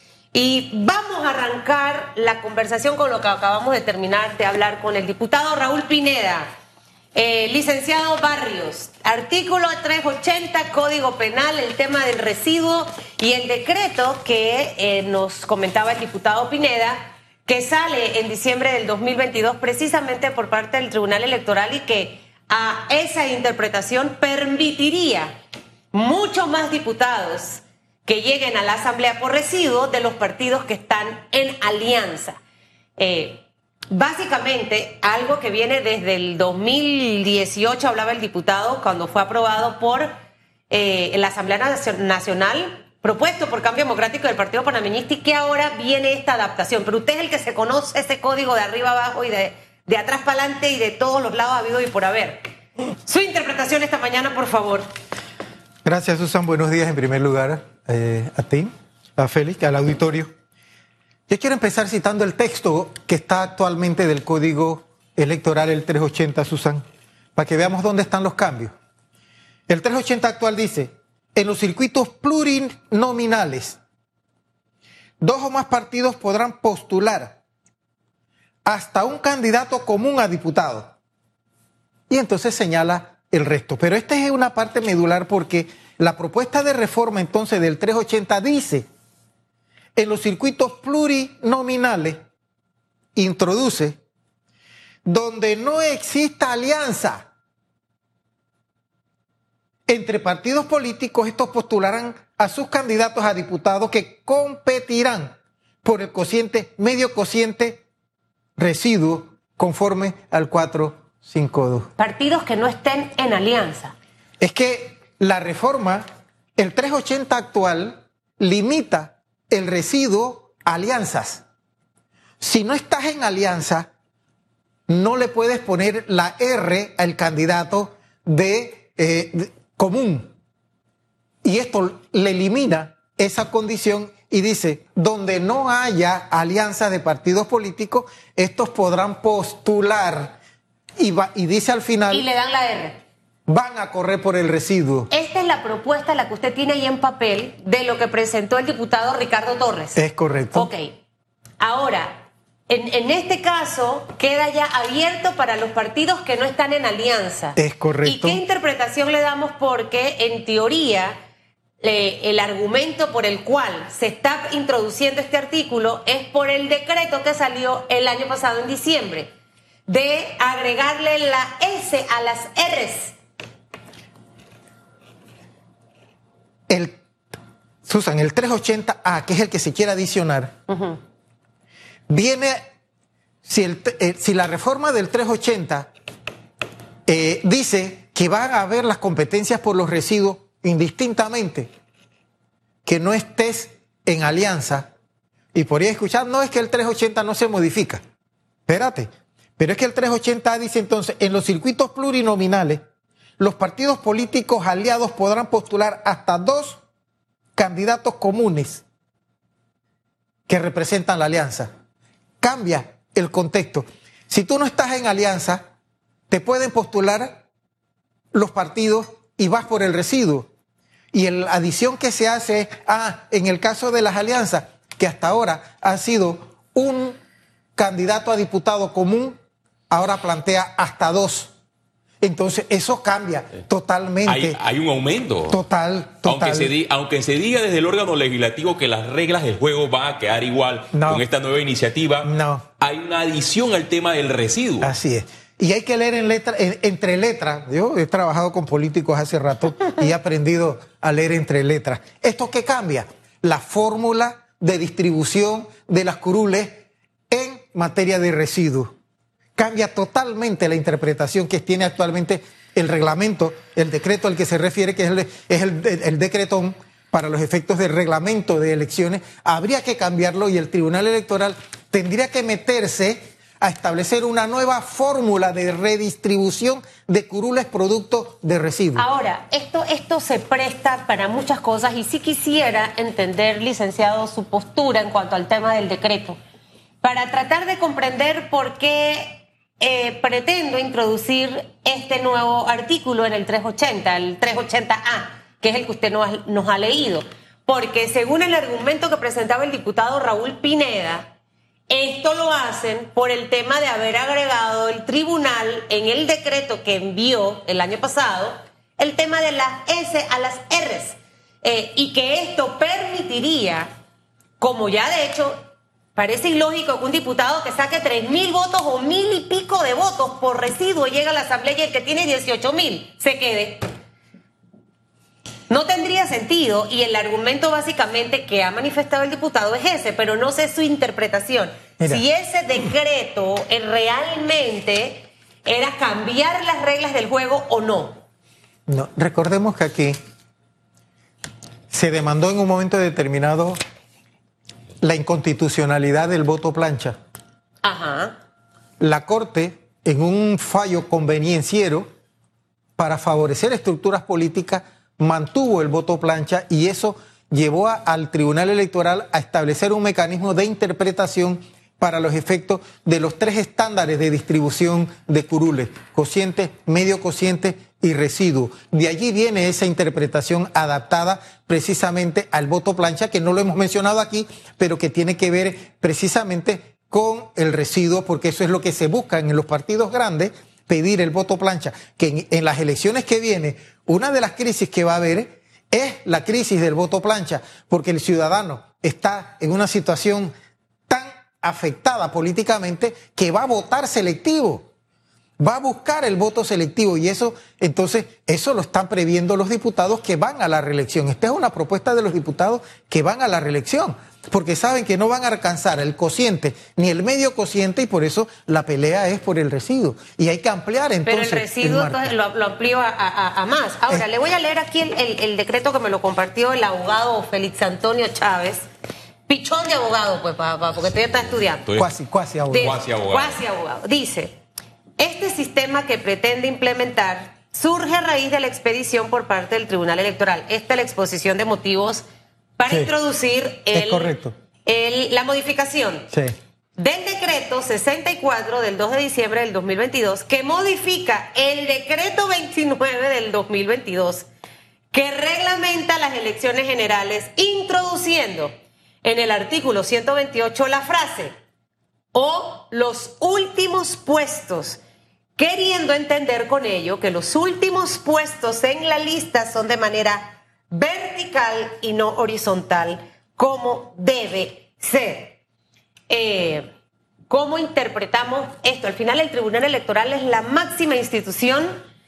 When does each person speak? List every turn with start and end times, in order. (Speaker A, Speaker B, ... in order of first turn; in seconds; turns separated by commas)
Speaker A: 0.3-6.5, Speaker A: 7.1-25.3, Speaker A: 25.9-32.4, Speaker A: 33.0-40.1, Speaker A: 40.7-52.5, Speaker A: 53.1-54.9, Speaker B: 55.9-60.3, Speaker B: 61.3-66.8, Speaker B: 67.4-68.8, Speaker B: 69.7-73.8, Speaker B: 75.2-77.4, Speaker B: 78.7-80.9, Speaker B: 82.1-88.9, Speaker B: 90.0-92.2, Speaker B: 93.2-94.0, Speaker B: 95.0-97.3, Speaker B: 99.9-107.8, Speaker B: 108.6-111.9, Speaker A: 112.0-114.0, Speaker B: 114.4-116.0, Speaker B: 116.6-121.4, Speaker B: 122.4-123.9, Speaker B: 124.9-130.3, Speaker B: 131.4-140.4, Speaker B: 141.0-142.3, Speaker A: 142.1-143.0, Speaker B: 143.5-145.1, Speaker A: 145.1-150.0, Speaker B: 150.0-150.7, Speaker A: 150.5-150.9, Speaker A: 151.6-161.2, Speaker B: 157.6-158.4, Speaker A: 161.8-169.3, Speaker A: 169.9-173.2, Speaker B: 176.7-177.0, Speaker B: 177.8-180.6, Speaker A: 180.7-181.0, Speaker B: 182.1-182.6, Speaker B: 183.4-185.9, Speaker B: 187.1-191.7, Speaker B: 192.8-194.9, Speaker B: 195.5-198.0, Speaker B: 198.7-202.8, Speaker B: 203.4-206.8, Speaker B: 207.6-208.8, Speaker B: 210.5-211.7, Speaker B: 212.4-215.6, Speaker B: 216.3-217.4, Speaker B: 218.3-220.5, Speaker B: 221.1-227.2, Speaker B: 227.8-229.4, Speaker B: 229.9-231.5, Speaker B: 232.2-234.6, Speaker C: 234.3-235.6, Speaker B: 235.5-236.7, Speaker C: 236.2-244.9, Speaker B: 240.9-241.2, Speaker B: 242.2-242.7, Speaker B: 244.8-258.9, Speaker B: 259.6-279.1, Speaker A: 279.0-286.4, Speaker A: 287.0-301.3, Speaker A: 301.9-313.9, Speaker A: 314.6-315.6, Speaker A: 316.2-323.9, Speaker A: 325.7-338.2, Speaker B: 338.9-340.2, Speaker B: 341.9-343.8, Speaker B: 345.0-347.2, Speaker A: 347.8-348.4, Speaker B: 349.0-352.1, Speaker B: 353.0-390.5, Speaker B: 391.1-394.9, Speaker B: 395.6-412.3, Speaker A: 411.2-418.9, Speaker A: 419.5-421.9, Speaker C: 421.9-422.1, Speaker B: 422.0-423.0, Speaker A: 422.7-424.6, Speaker C: 422.7-423.6, Speaker A: 425.2-432.2, Speaker A: 432.8-436.3, Speaker B: 433.9-434.5, Speaker A: 437.0-444.5, Speaker A: 445.1-448.7, Speaker A: 449.2-451.5, Speaker A: 452.3-455.0, Speaker A: 455.6-465.6, Speaker A: 466.3-466.9, Speaker A: 467.5-472.0